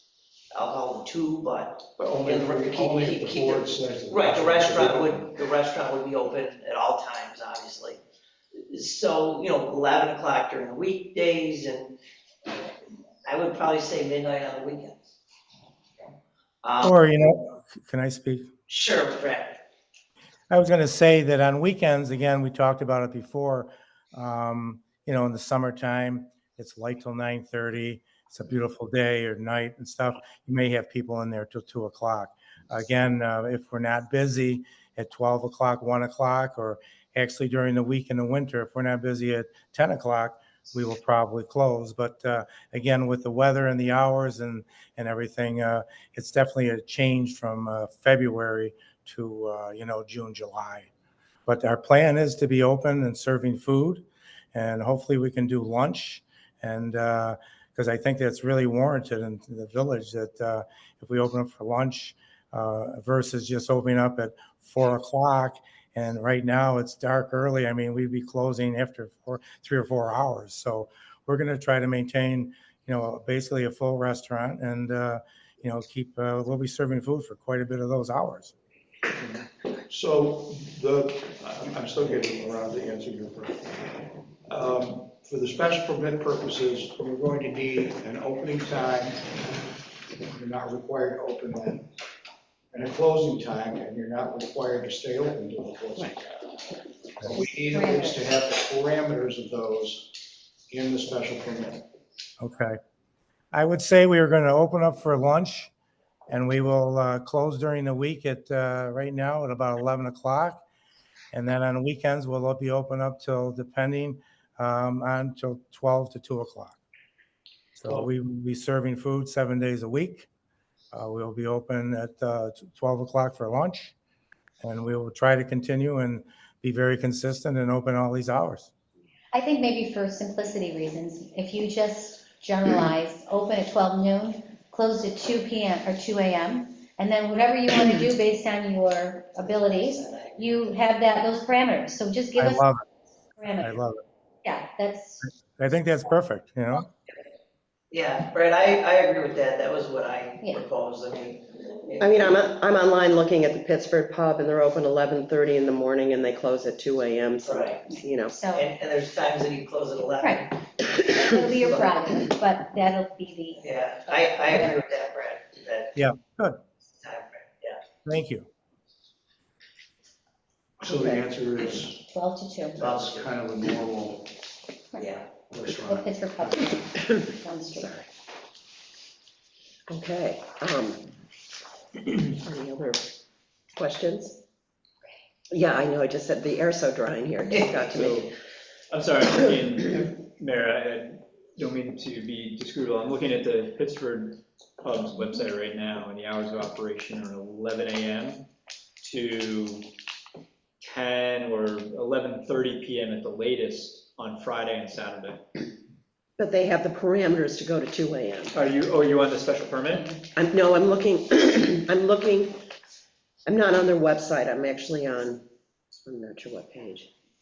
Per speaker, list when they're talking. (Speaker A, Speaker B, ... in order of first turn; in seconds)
Speaker A: 0.5-8.0, 8.7-11.9, 13.2-15.0, 16.6-17.0, 18.7-19.6, 139.4-140.8, 147.9-152.3, 157.4-157.8, 158.5-160.6, 161.6-161.9, 163.6-166.0, 167.0-167.8, 172.8-173.3, 175.0-175.2
Speaker B: 2.0-5.3, 79.2-83.7, 84.5-89.4, 90.3-91.8, 92.7-96.2, 97.2-100.1, 100.7-101.8, 170.8-172.1, 172.8-174.3, 175.5-176.7
Speaker C: 16.8-18.5, 20.5-50.9, 51.5-78.5, 102.4-102.8, 103.5-105.7, 106.3-110.6, 111.3-116.8, 117.8-120.3, 120.9-123.9, 124.6-128.7, 142.4-142.8, 143.6-144.0, 145.2-146.9, 165.9-166.6, 168.0-168.5
Speaker D: 97.3-98.2, 129.3-142.7, 143.3-143.8, 144.4-145.3, 158.2-158.7, 160.2-160.4, 161.0-163.7, 164.4-164.8, 172.1-172.8, 174.9-178.0
Speaker E: 152.0-158.4, 177.0-178.0, 179.9-181.1, 182.3-183.1, 183.8-184.4, 185.5-188.3, 206.4-208.5, 210.3-212.6, 213.4-215.4, 216.1-217.1
Speaker F: 187.8-188.3, 188.9-198.4, 199.0-199.9, 200.8-205.4, 208.5-210.1